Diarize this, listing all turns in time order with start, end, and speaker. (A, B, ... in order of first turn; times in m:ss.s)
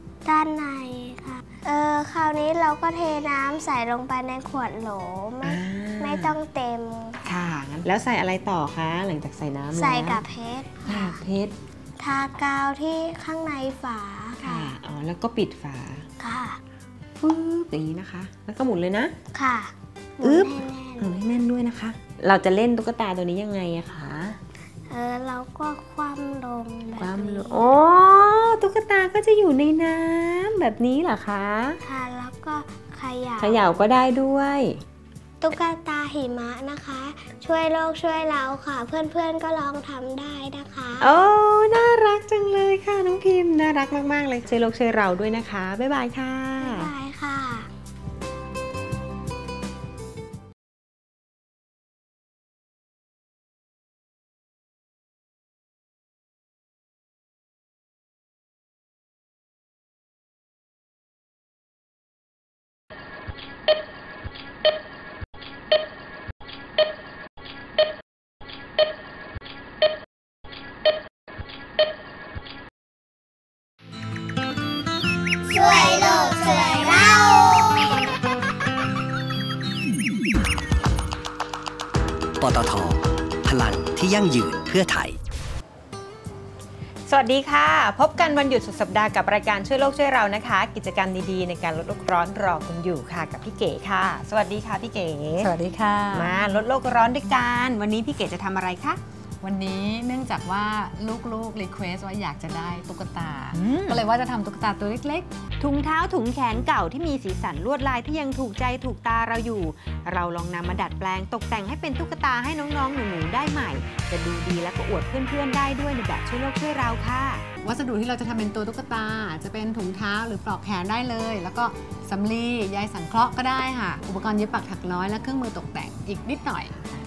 0:00.2-0:07.2 A
0:05.4-0:06.4 B
0:07.3-0:10.2 B
0:09.7-0:11.2 A
0:10.8-0:11.6 B
0:12.0-0:14.8 A
0:14.4-0:16.1 B
0:16.2-0:16.6 A
0:17.2-0:19.1 B
0:19.3-0:21.2 A
0:20.2-0:24.4 B
0:24.9-0:27.7 A
0:27.0-0:31.8 B
0:31.8-0:33.7 A
0:33.4-0:34.8 B
0:35.4-0:41.1 A
0:41.0-0:46.9 B
0:46.6-0:47.7 A
1:15.4-1:17.9 A
1:22.4-1:25.2 C
1:27.1-1:35.5 B
1:35.4-1:36.4 D
1:36.1-1:39.0 B
1:39.4-1:45.3 D
1:43.5-1:44.0 B
1:45.6-1:57.5 B
1:57.6-2:06.8 D